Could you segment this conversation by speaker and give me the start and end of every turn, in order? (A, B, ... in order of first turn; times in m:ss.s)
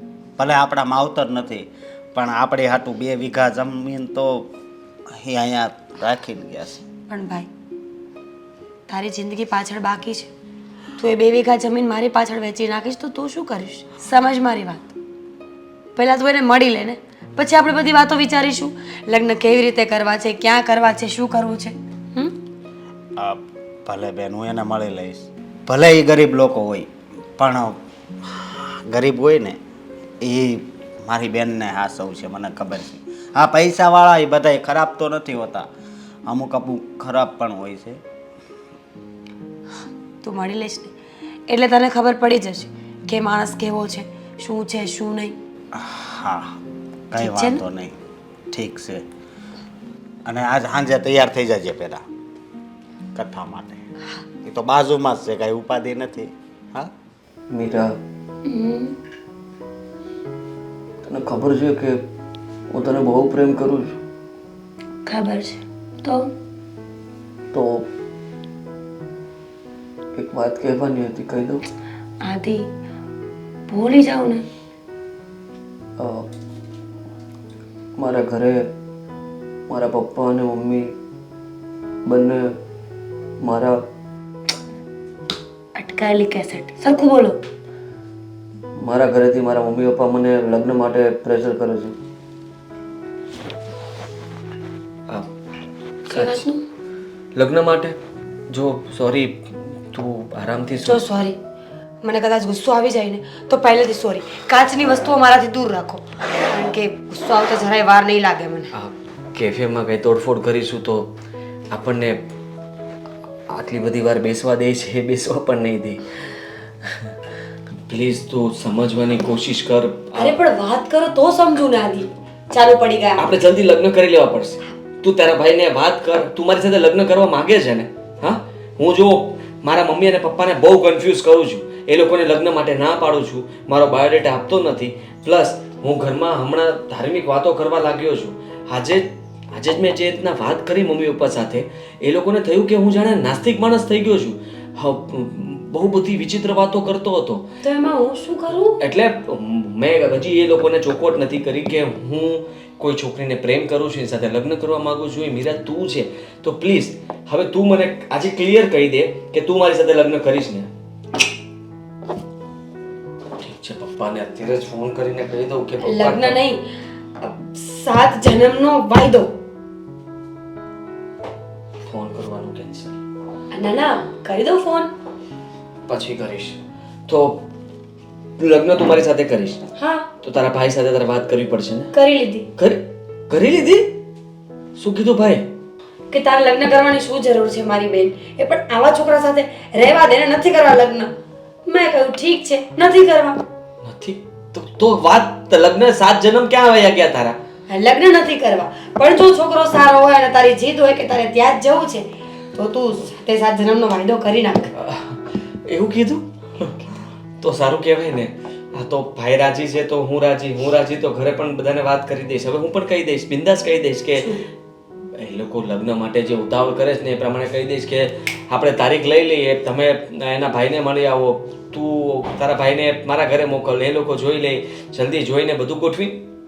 0:00.4-0:04.5 A
0:05.2-0:06.8 A
0:07.1-0:07.5 B
0:08.9-0:10.3 B
0:11.0-0:14.9 B
0:16.0-0:22.3 B
0:23.2-0:29.6 A
0:30.2-0:35.7 A
0:36.3-0:38.0 A
0:40.2-0:40.9 B
0:41.5-0:45.4 B
0:45.8-0:46.6 A
0:47.1-0:48.0 A
0:47.2-0:47.6 B
0:48.5-0:49.0 A
0:50.3-0:52.0 A
0:53.2-0:53.8 A
0:54.4-0:56.9 A
0:57.5-0:57.9 C
0:58.5-0:59.0 B
1:01.1-1:02.0 C
1:02.7-1:04.0 C
1:05.1-1:06.3 B
1:07.5-1:07.8 C
1:10.2-1:11.6 C
1:12.2-1:12.6 B
1:13.7-1:14.4 B
1:16.0-1:16.3 C
1:18.0-1:18.7 C
1:19.7-1:21.0 C
1:22.1-1:22.6 C
1:23.4-1:23.8 C
1:25.8-1:27.4 B
1:28.8-1:32.0 C
1:36.1-1:36.4 C
1:36.1-1:36.6 B
1:37.4-1:38.0 C
1:38.5-1:41.0 C
1:40.8-1:41.4 B
1:42.0-1:48.7 B
1:48.8-1:51.1 C
1:51.7-1:52.2 C
1:53.5-1:56.0 C
1:57.9-2:00.4 C
2:00.2-2:03.2 B
2:03.2-2:27.5 C
2:27.6-2:28.8 B
2:28.8-2:40.7 C
2:43.4-2:46.4 C
2:45.8-2:46.6 B
2:47.2-2:49.3 B
2:51.9-2:52.9 C
2:53.5-2:54.9 B
2:55.9-2:57.5 C
2:58.4-2:59.6 C
2:59.8-3:00.1 B
3:00.2-3:01.9 C
3:01.9-3:02.5 B
3:02.6-3:04.0 C
3:04.8-3:05.5 C
3:06.1-3:11.1 B
3:11.7-3:13.4 B
3:13.8-3:17.4 C
3:17.7-3:24.7 B
3:24.8-3:26.8 C
3:27.4-3:34.3 C
3:35.2-3:46.2 C